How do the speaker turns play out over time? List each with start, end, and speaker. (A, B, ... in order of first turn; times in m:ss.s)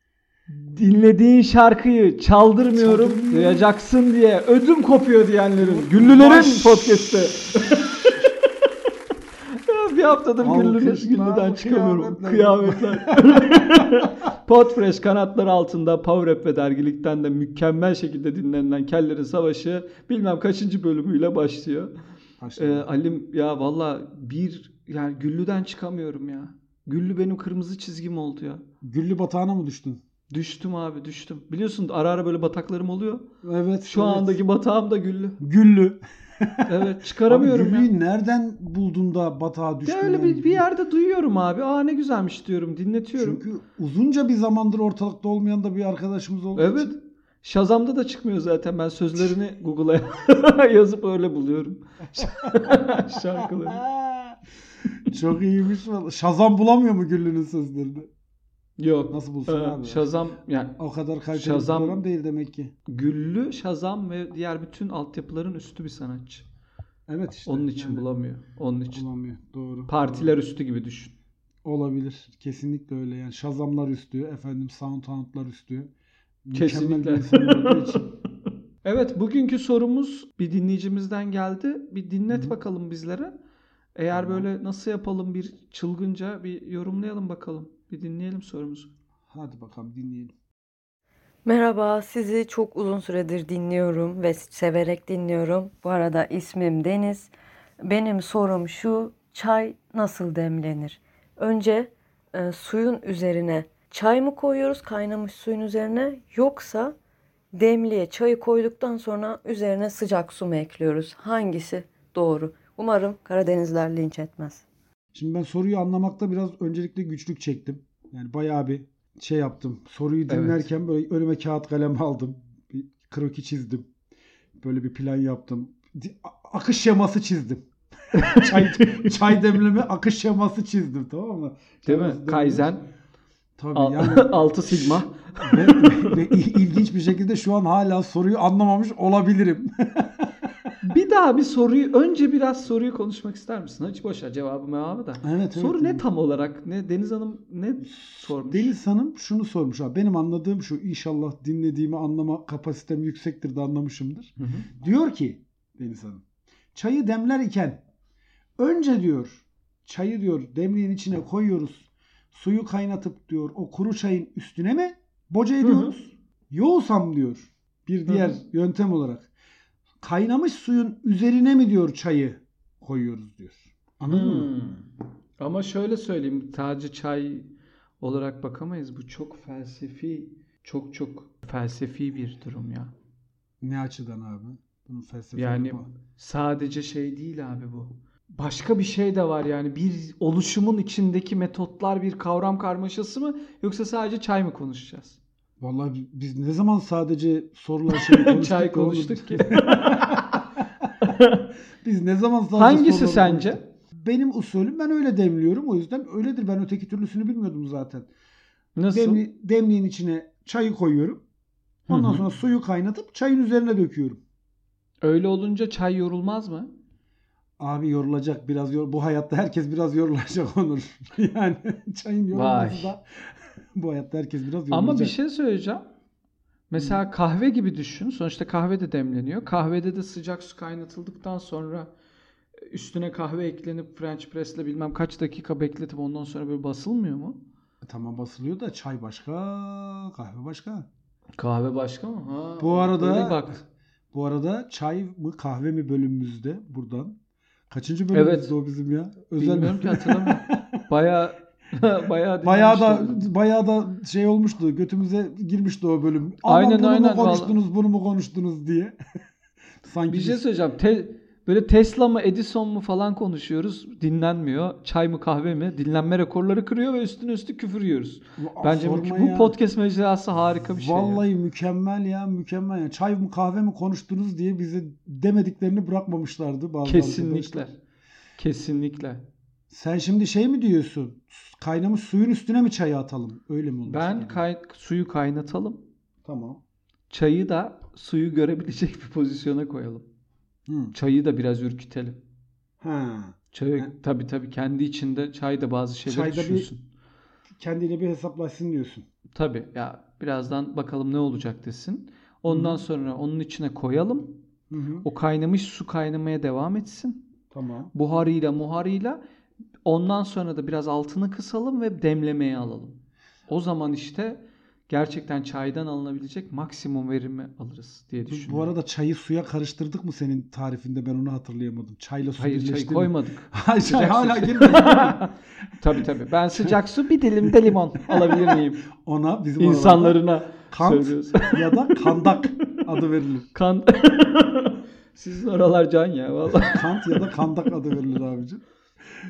0:00.5-0:08.3 A
0:02.7-0:03.7 B
0:05.6-0:07.3 B
0:09.5-0:21.9 A
0:10.4-0:14.0 B
0:22.4-0:22.9 B
0:22.6-0:28.6 A
0:28.8-0:30.0 B
0:30.3-0:33.3 A
0:33.4-0:34.4 B
0:33.8-0:35.4 A
0:35.4-0:40.6 B
0:36.7-0:37.9 A
0:39.8-0:43.4 A
0:43.2-0:46.9 B
0:46.6-0:53.8 A
0:53.4-0:54.4 B
0:55.0-0:58.1 B
0:58.8-1:00.8 A
0:59.1-1:00.2 B
1:00.8-1:02.7 B
1:01.3-1:02.0 A
1:02.9-1:06.4 A
1:07.1-1:08.1 B
1:07.4-1:09.0 A
1:08.9-1:10.3 B
1:09.9-1:11.1 A
1:11.6-1:15.9 B
1:16.4-1:18.0 B
1:16.5-1:18.1 A
1:18.8-1:23.3 A
1:22.3-1:22.6 B
1:23.9-1:28.9 A
1:24.1-1:24.5 B
1:29.3-1:30.3 B
1:31.4-1:47.0 C
1:47.5-1:54.6 C
1:55.1-2:03.9 B
2:00.3-2:00.7 A
2:04.6-2:07.6 B
2:08.1-2:09.2 A
2:08.2-2:12.7 B
2:11.8-2:12.8 A
2:13.6-2:20.7 B
2:13.7-2:16.2 A
2:20.8-2:28.7 A
2:25.2-2:26.1 B
2:27.8-2:36.2 B
2:34.4-2:34.7 A
2:36.7-2:37.8 B
2:38.6-2:49.3 B
2:45.6-2:46.0 A
2:48.1-2:48.4 A
2:50.0-2:54.5 B
2:54.1-2:54.8 A
2:55.4-2:57.5 A
2:58.0-3:02.9 A
3:03.6-3:05.9 B
3:05.3-3:15.2 A
3:15.6-3:20.4 B
3:17.9-3:20.4 A
3:21.0-3:21.5 A
3:21.8-3:28.1 B
3:22.5-3:23.6 A
3:28.8-3:29.2 A
3:28.9-3:31.2 B
3:31.9-3:34.2 B
3:31.9-3:32.2 A
3:35.0-3:36.7 A
3:37.6-3:43.0 B
3:42.3-3:42.9 A
3:43.7-3:45.2 B
3:44.7-3:45.8 A
3:46.7-3:51.9 A
3:52.6-3:57.4 A
3:57.8-4:00.9 B
4:01.4-4:03.6 A
4:02.6-4:03.4 B
4:04.1-4:07.2 B
4:07.7-4:10.8 B
4:08.1-4:08.5 A
4:09.4-4:13.3 A
4:12.4-4:19.0 B
4:16.4-4:17.6 A
4:19.8-4:20.4 B
4:20.1-4:31.2 A
4:28.4-4:29.6 B
4:30.6-4:37.7 B
4:36.8-4:37.8 A
4:38.4-4:39.2 A
4:39.7-4:44.4 B
4:43.9-4:45.8 A
4:46.2-4:46.6 B
4:47.1-4:50.0 A
4:50.7-4:50.9 B
4:50.9-4:52.2 A
4:52.8-4:53.9 B
4:53.5-4:56.8 A
4:56.0-4:56.7 B
4:57.6-4:59.0 B
4:59.3-5:04.4 A
5:02.5-5:02.8 B
5:04.7-5:05.1 B
5:05.0-5:07.3 A
5:07.5-5:07.9 B
5:07.9-5:09.2 A
5:09.8-5:18.7 A
5:18.3-5:25.2 B
5:22.3-5:28.9 A
5:26.0-5:26.8 B
5:27.4-5:33.5 B
5:29.6-5:33.0 A
5:33.5-5:37.6 A
5:36.6-5:38.6 B